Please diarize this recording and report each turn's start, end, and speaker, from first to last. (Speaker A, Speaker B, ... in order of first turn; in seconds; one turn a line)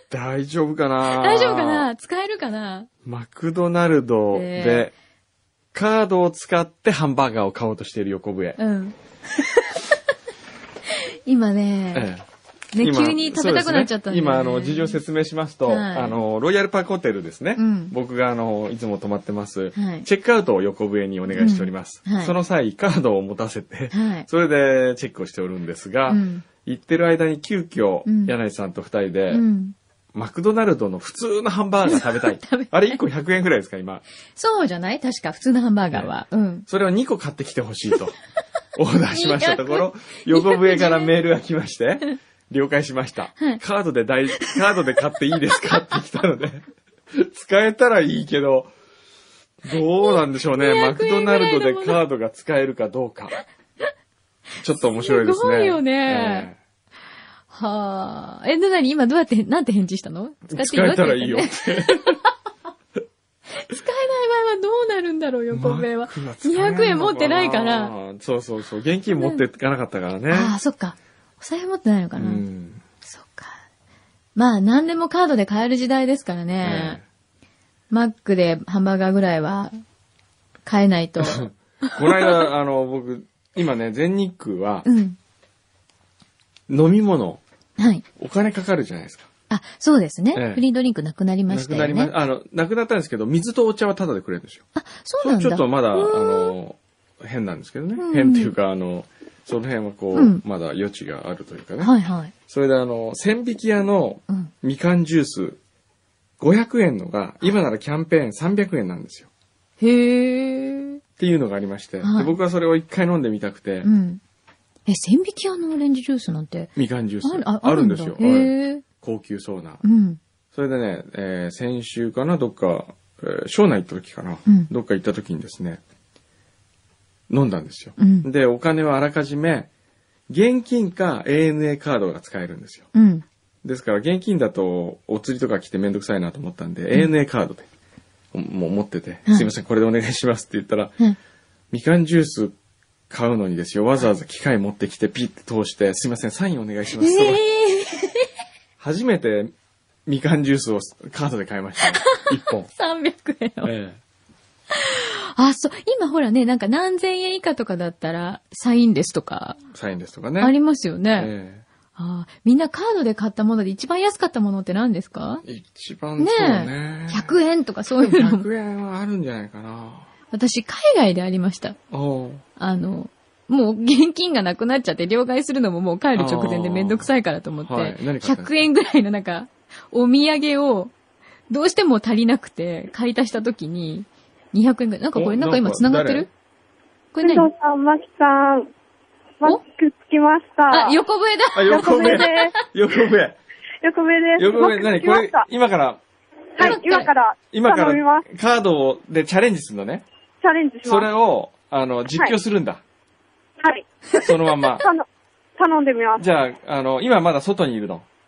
Speaker A: 0.1-1.9
Speaker B: 1.1-2.9
Speaker A: 3.0-4.9
Speaker B: 4.3-4.9
Speaker A: 5.7-8.6
Speaker B: 8.6-9.8
Speaker B: 10.9-12.1
Speaker A: 11.9-12.2
Speaker B: 12.7-15.0
Speaker A: 12.8-29.4
Speaker B: 15.7-16.2
Speaker B: 17.6-17.9
Speaker B: 19.7-20.1
Speaker B: 21.3-22.3
Speaker B: 23.9-24.3
Speaker B: 26.1-26.4
Speaker B: 28.0-28.3
Speaker B: 29.3-29.7
Speaker A: 30.1-34.0
Speaker B: 31.9-33.0
Speaker B: 34.4-36.6
Speaker A: 36.7-38.1
Speaker A: 38.7-48.7
Speaker B: 39.1-41.1
Speaker A: 49.6-53.4
Speaker B: 50.1-52.0
Speaker A: 54.6-56.6
Speaker B: 54.8-56.5
Speaker B: 57.5-62.3
Speaker A: 60.5-62.2
Speaker B: 63.5-67.9
Speaker A: 65.5-70.5
Speaker B: 69.1-69.4
Speaker B: 70.3-72.4
Speaker A: 72.2-72.8
Speaker B: 73.0-73.6
Speaker B: 74.3-77.0
Speaker A: 76.6-77.0
Speaker B: 77.9-79.7
Speaker B: 80.6-82.4
Speaker A: 81.2-84.8
Speaker B: 84.8-85.2
Speaker A: 86.7-87.4
Speaker B: 87.8-88.0
Speaker A: 88.2-89.3
Speaker B: 89.5-92.1
Speaker A: 90.3-90.6
Speaker A: 91.5-94.6
Speaker B: 94.7-96.5
Speaker A: 95.2-101.9
Speaker B: 98.0-98.5
Speaker B: 100.1-100.4
Speaker B: 101.8-102.3
Speaker A: 102.5-105.6
Speaker A: 106.4-109.3
Speaker B: 109.8-111.0
Speaker A: 111.2-113.9
Speaker B: 112.0-112.3
Speaker B: 113.8-114.2
Speaker B: 114.8-116.7
Speaker A: 116.8-119.8
Speaker B: 117.2-118.8
Speaker B: 119.8-120.2
Speaker A: 120.5-125.8
Speaker A: 127.3-129.7
Speaker B: 128.0-128.3
Speaker A: 130.3-132.9
Speaker B: 132.9-133.2
Speaker A: 133.6-137.7
Speaker A: 138.3-141.0
Speaker A: 141.7-142.5
Speaker A: 143.1-147.4
Speaker B: 147.0-148.3
Speaker A: 148.8-149.5
Speaker A: 150.1-152.7
Speaker B: 151.8-153.7
Speaker A: 153.6-154.0
Speaker B: 154.7-159.6
Speaker A: 159.7-160.6
Speaker B: 160.4-161.3
Speaker A: 161.1-161.6
Speaker B: 161.9-165.4
Speaker A: 165.4-167.3
Speaker B: 166.2-168.4
Speaker A: 168.0-170.1
Speaker B: 170.3-171.8
Speaker A: 171.9-172.4
Speaker B: 172.6-180.9
Speaker A: 176.1-178.5
Speaker B: 181.5-186.3
Speaker A: 185.1-186.3
Speaker B: 187.1-187.5
Speaker C: 187.2-188.7
Speaker C: 189.4-191.0
Speaker B: 190.7-192.5
Speaker A: 191.5-193.4
Speaker C: 191.7-192.5
Speaker C: 193.8-195.4
Speaker A: 194.4-196.0
Speaker C: 196.6-198.2
Speaker B: 196.6-197.1
Speaker A: 197.5-200.0
Speaker C: 200.4-201.1
Speaker A: 200.8-202.8
Speaker C: 203.6-203.9
Speaker A: 204.2-204.8
Speaker C: 204.8-205.1
Speaker C: 205.6-206.2
Speaker A: 206.2-208.1